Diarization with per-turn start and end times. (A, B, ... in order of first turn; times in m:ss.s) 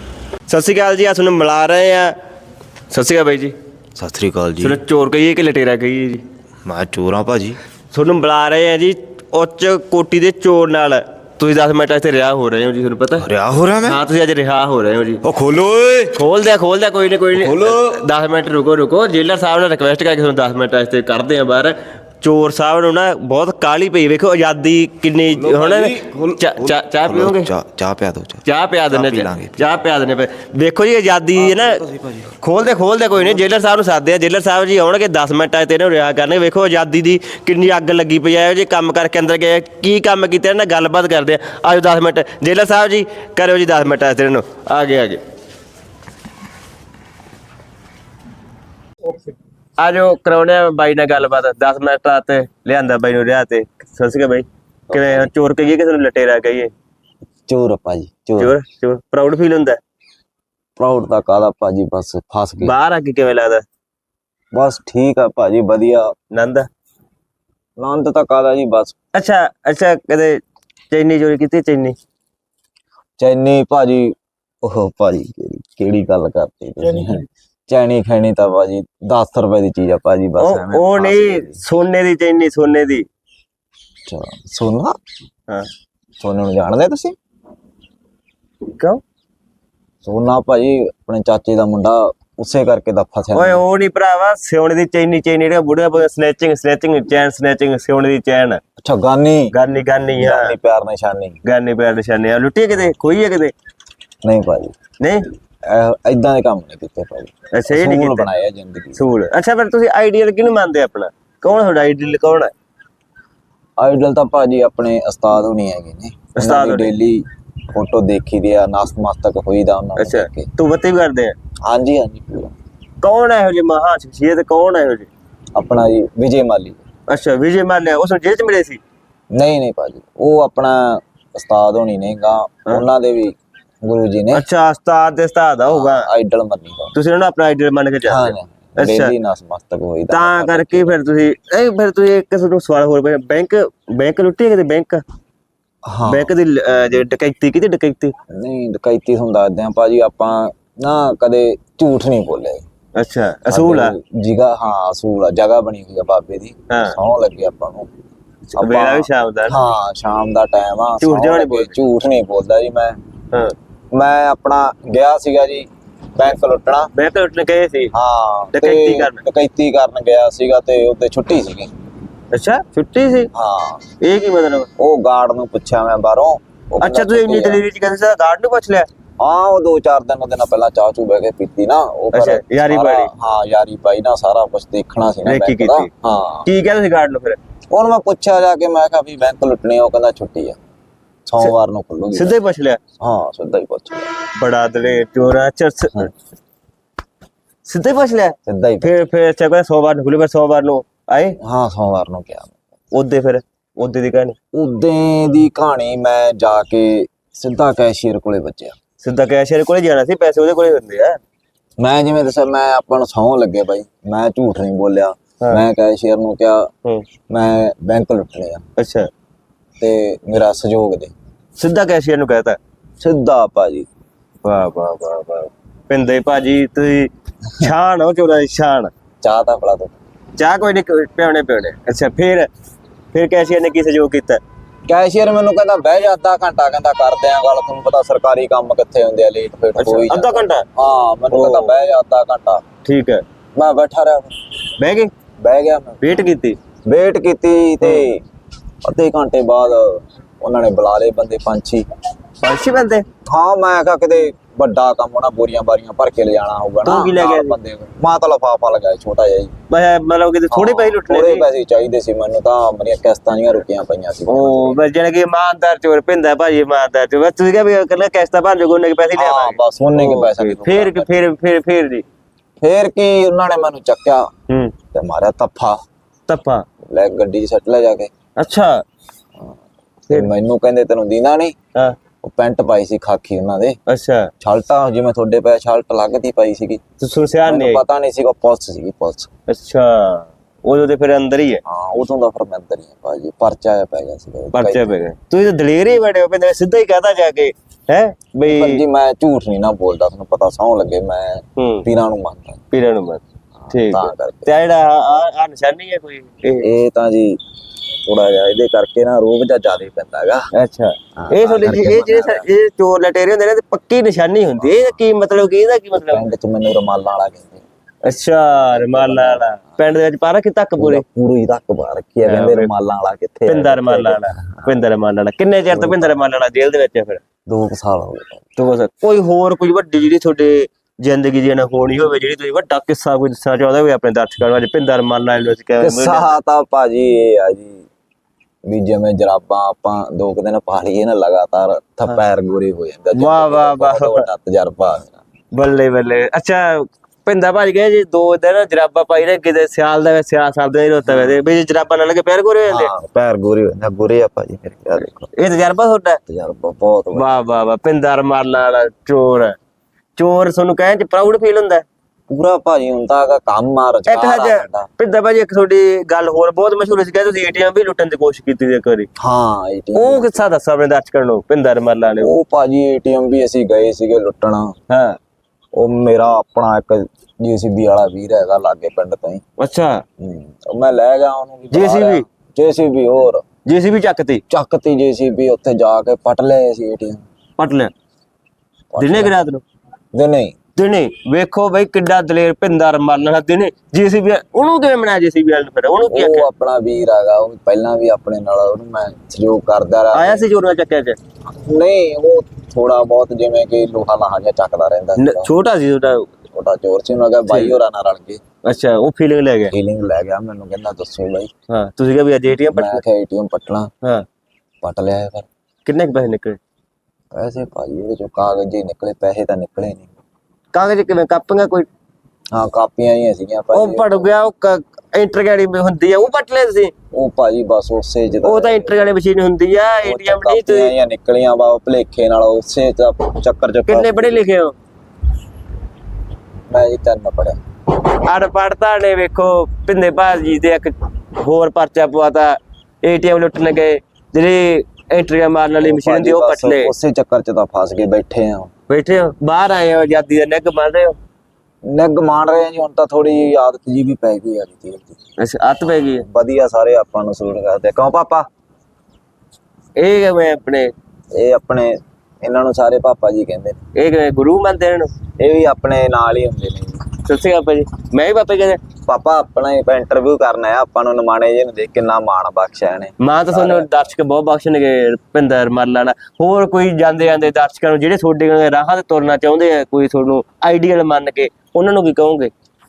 0:00.5-0:02.2 A
0:02.9-0:03.6 A
0:04.0-0:04.8 B
0:04.6-0:06.2 A
0:06.7-0:07.6 B
0:07.9-0:13.3 A
0:13.2-0:14.0 B
0:13.4-0:13.7 C
0:13.8-0:15.2 A
0:15.2-0:16.2 B
0:16.1-0:27.5 A
0:17.4-0:17.8 B
0:25.4-0:29.6 B
0:28.4-0:31.8 A
0:31.5-0:32.3 B
0:32.4-0:45.2 A
0:49.8-0:56.7 A
0:54.9-0:55.3 C
0:57.5-0:58.5 C
0:58.4-0:59.8 A
1:00.8-1:02.7 C
1:02.6-1:03.6 A
1:04.5-1:06.1 C
1:06.3-1:06.7 A
1:07.8-1:09.0 C
1:09.1-1:12.0 A
1:13.2-1:21.6 C
1:16.8-1:17.2 A
1:20.4-1:23.1 A
1:24.1-1:25.0 C
1:26.2-1:27.2 C
1:28.8-1:29.0 A
1:30.0-1:33.6 C
1:33.3-1:38.6 A
1:38.8-1:39.5 C
1:39.5-1:40.6 A
1:40.2-1:41.4 C
1:41.4-1:43.5 A
1:44.2-1:44.7 C
1:45.0-1:45.3 A
1:45.7-1:49.0 C
1:47.5-1:48.3 A
1:49.0-1:52.5 A
1:53.8-2:00.5 C
1:56.4-1:56.9 A
2:00.0-2:01.4 A
2:01.6-2:02.6 C
2:03.0-2:05.1 A
2:05.6-2:06.8 C
2:07.1-2:08.8 A
2:09.3-2:14.4 C
2:14.3-2:16.1 A
2:15.7-2:17.0 C
2:16.9-2:19.1 A
2:18.0-2:21.0 C
2:20.1-2:25.0 A
2:25.8-2:26.3 C
2:26.1-2:28.1 A
2:28.3-2:32.6 C
2:33.0-2:34.0 A
2:33.5-2:37.9 C
2:36.7-2:37.0 A
2:38.5-2:39.6 A
2:38.6-2:43.0 C
2:41.0-2:41.8 A
2:43.9-2:46.9 C
2:47.0-2:47.9 A
2:47.9-2:51.7 C
2:48.5-2:49.2 A
2:52.3-2:53.3 A
2:53.3-2:53.8 C
2:54.0-2:54.7 A
2:54.8-2:57.6 C
2:56.8-2:58.9 A
2:59.2-3:06.5 C
3:02.1-3:03.1 A
3:05.2-3:05.9 A
3:06.4-3:07.4 A
3:07.7-3:10.6 C
3:11.3-3:12.4 C
3:12.1-3:12.8 A
3:13.0-3:14.1 C
3:14.4-3:16.1 A
3:17.7-3:21.4 A
3:18.5-3:18.9 C
3:21.4-3:22.6 C
3:22.9-3:24.4 A
3:24.5-3:28.8 C
3:29.0-3:31.2 A
3:31.8-3:36.7 C
3:37.3-3:38.6 C
3:38.8-3:39.1 A
3:39.8-3:41.1 C
3:41.6-3:42.6 A
3:43.0-3:43.9 C
3:44.4-3:48.9 A
3:49.2-3:50.0 C
3:50.4-3:52.5 A
3:53.1-3:54.4 A
3:54.9-4:02.6 C
3:59.8-4:00.6 A
4:01.3-4:01.8 A
4:02.8-4:03.2 A
4:03.6-4:04.3 C
4:04.8-4:05.1 A
4:05.4-4:06.2 C
4:06.0-4:06.6 A
4:06.9-4:08.2 C
4:07.8-4:08.1 A
4:08.9-4:11.8 C
4:12.4-4:13.0 A
4:13.3-4:19.5 C
4:16.8-4:17.6 A
4:19.7-4:21.4 A
4:20.5-4:24.8 C
4:24.3-4:32.0 A
4:29.2-4:31.1 C
4:32.6-4:34.3 C
4:34.5-4:34.7 A
4:34.9-4:35.8 C
4:36.3-4:36.7 A
4:36.9-4:38.1 C
4:38.4-4:38.8 A
4:40.1-4:41.6 C
4:42.2-4:43.8 C
4:43.9-4:44.3 A
4:44.4-4:46.8 C
4:47.0-4:47.8 A
4:47.5-4:49.3 C
4:49.5-4:51.6 A
4:51.7-4:55.1 C
4:54.5-4:58.8 A
4:58.5-5:02.6 C
5:01.6-5:01.9 A
5:02.7-5:06.7 A
5:03.6-5:04.5 C
5:06.6-5:07.4 C
5:08.0-5:10.4 C
5:10.6-5:16.3 A
5:11.2-5:12.5 C
5:14.6-5:14.9 C
5:15.9-5:17.6 C
5:18.0-5:21.0 A
5:18.5-5:19.8 C
5:20.8-5:24.8 C
5:22.3-5:22.7 A
5:23.5-5:27.2 A
5:25.7-5:26.2 C
5:27.5-5:28.5 C
5:28.6-5:36.4 A
5:35.8-5:37.9 C
5:38.6-5:45.2 C
5:43.2-5:44.2 A
5:45.5-5:52.9 A
5:51.1-5:51.3 C
5:52.7-5:55.3 C
5:55.3-5:56.2 A
5:56.3-5:57.3 C
5:57.1-5:59.6 A
6:00.2-6:01.8 A
6:02.3-6:04.9 C
6:04.1-6:09.1 A
6:09.2-6:10.4 C
6:10.0-6:12.3 A
6:12.2-6:14.8 C
6:14.9-6:15.2 A
6:15.7-6:19.4 C
6:19.6-6:20.0 A
6:20.2-6:23.4 C
6:21.7-6:22.2 A
6:23.7-6:24.4 A
6:24.5-6:27.2 C
6:27.6-6:27.9 A
6:28.9-6:29.4 C
6:29.0-6:29.6 A
6:30.1-6:30.6 C
6:30.8-6:36.5 A
6:36.1-6:40.5 C
6:40.1-6:41.2 A
6:41.5-6:45.5 C
6:45.2-6:46.3 A
6:46.5-6:48.4 C
6:47.5-6:47.8 A
6:48.6-6:49.7 A
6:49.7-6:51.5 C
6:51.7-6:53.0 A
6:52.7-6:53.9 C
6:54.8-6:55.5 C
6:55.8-6:56.6 A
6:57.3-7:00.1 C
7:00.7-7:01.9 A
7:02.5-7:04.4 C
7:03.7-7:06.9 A
7:07.1-7:09.1 C
7:08.4-7:10.9 A
7:10.0-7:14.4 C
7:13.9-7:14.8 A
7:16.7-7:17.6 C
7:18.0-7:26.9 A
7:25.8-7:28.7 C
7:28.9-7:31.2 A
7:31.8-7:35.2 C
7:35.4-7:36.3 A
7:35.8-7:38.5 C
7:40.0-7:40.9 A
7:41.3-7:43.8 C
7:44.0-7:45.1 A
7:45.4-7:47.0 C
7:47.2-7:48.8 A
7:49.1-7:53.9 C
7:53.2-8:02.5 A